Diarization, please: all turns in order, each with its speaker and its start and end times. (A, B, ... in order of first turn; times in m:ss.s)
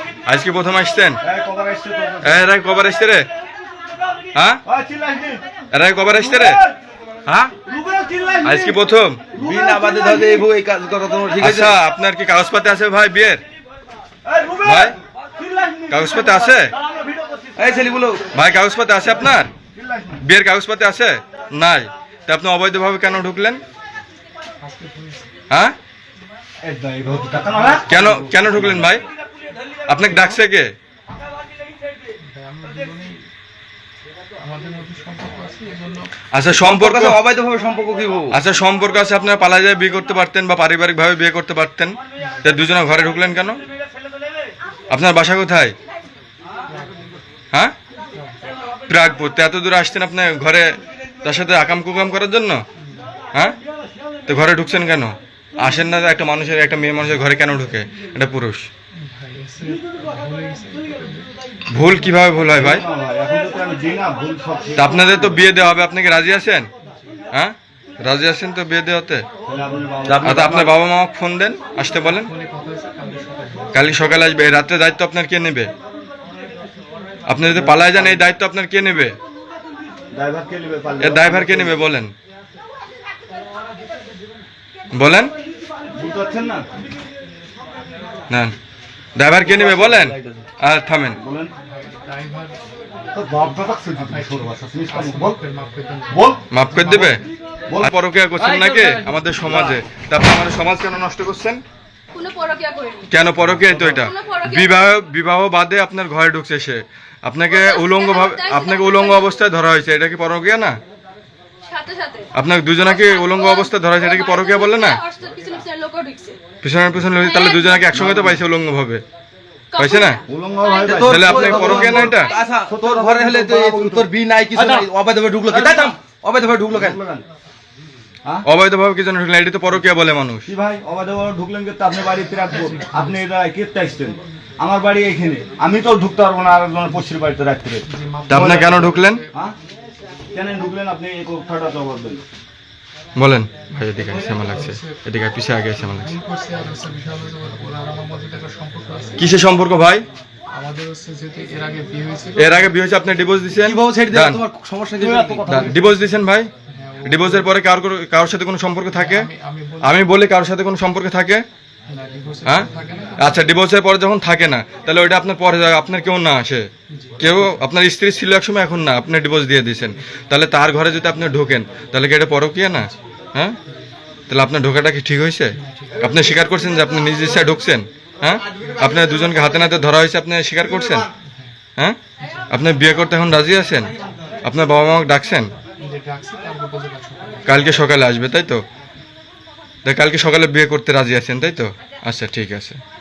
0:00.3-0:01.2 A
0:01.2-0:02.5 B
0:02.2-0:03.3 A
0:04.3-0:04.6 A
0:04.6-0:05.4 B
0:05.7-0:06.6 A
0:06.1-0:06.8 B
0:07.3-0:07.6 C
0:07.6-0:08.8 B
0:08.4-0:09.3 A
0:09.4-0:10.4 B
0:09.4-0:11.8 C
0:11.4-0:13.4 A
0:14.2-0:14.8 B
0:14.6-0:15.0 A
0:15.4-0:17.8 B
0:15.9-0:16.7 A
0:17.6-0:18.3 C
0:18.3-0:19.5 A
0:19.6-0:20.3 B
0:20.2-0:23.6 A
0:24.6-0:25.3 D
0:25.5-0:25.8 A
0:26.6-0:28.8 B
0:27.8-0:29.0 A
0:29.9-0:30.7 A
0:32.2-0:33.2 D
0:34.4-0:36.1 D
0:36.3-0:37.2 A
0:36.4-0:38.4 C
0:38.3-0:43.6 A
0:44.9-0:45.8 A
0:48.9-0:50.7 A
0:51.2-0:52.6 A
0:54.3-0:58.7 A
0:59.0-1:01.3 D
1:01.7-1:02.9 A
1:02.5-1:05.5 B
1:04.8-1:06.7 A
1:07.3-1:09.3 A
1:09.4-1:10.7 B
1:10.1-1:10.7 C
1:10.3-1:12.3 A
1:12.0-1:13.9 D
1:13.7-1:15.7 A
1:17.3-1:19.2 A
1:17.5-1:18.3 B
1:20.1-1:21.9 B
1:21.0-1:22.1 A
1:24.9-1:25.3 A
1:25.9-1:26.7 B
1:28.3-1:28.6 A
1:29.2-1:31.2 A
1:29.3-1:30.5 C
1:31.2-1:31.5 B
1:31.6-1:32.6 D
1:33.1-1:35.4 B
1:34.0-1:37.2 D
1:36.1-1:36.4 B
1:36.5-1:37.2 A
1:37.8-1:41.6 A
1:38.4-1:39.8 C
1:42.1-1:43.1 E
1:43.1-1:50.8 A
1:44.0-1:44.8 E
1:47.5-1:49.4 E
1:51.6-1:56.4 E
1:52.3-1:55.0 A
1:56.6-1:59.0 A
1:57.2-1:58.0 E
1:57.9-1:58.4 B
1:59.7-2:02.5 E
1:59.8-2:00.2 A
2:00.2-2:01.2 B
2:00.8-2:07.0 C
2:01.1-2:02.4 A
2:02.5-2:04.8 B
2:05.5-2:06.0 B
2:06.7-2:07.2 B
2:08.5-2:10.5 A
2:10.5-2:19.6 B
2:12.5-2:13.2 D
2:17.9-2:19.3 D
2:18.3-2:19.2 A
2:20.3-2:22.2 B
2:23.2-2:26.1 A
2:23.7-2:25.0 D
2:25.9-2:29.3 D
2:29.2-2:30.1 A
2:30.5-2:32.7 D
2:32.4-2:34.4 A
2:33.6-2:35.6 C
2:35.0-2:36.0 B
2:35.5-2:36.5 A
2:36.7-2:37.5 D
2:37.0-2:39.3 A
2:38.9-2:40.0 D
2:39.8-2:41.4 A
2:41.9-2:43.4 D
2:42.5-2:46.7 A
2:46.9-2:47.6 D
2:47.2-2:53.6 A
2:54.3-3:01.1 A
2:55.6-2:56.1 D
3:02.2-3:02.4 D
3:02.5-3:03.9 A
3:04.4-3:05.5 A
3:05.8-3:07.6 D
3:07.5-3:08.6 A
3:09.9-3:12.8 A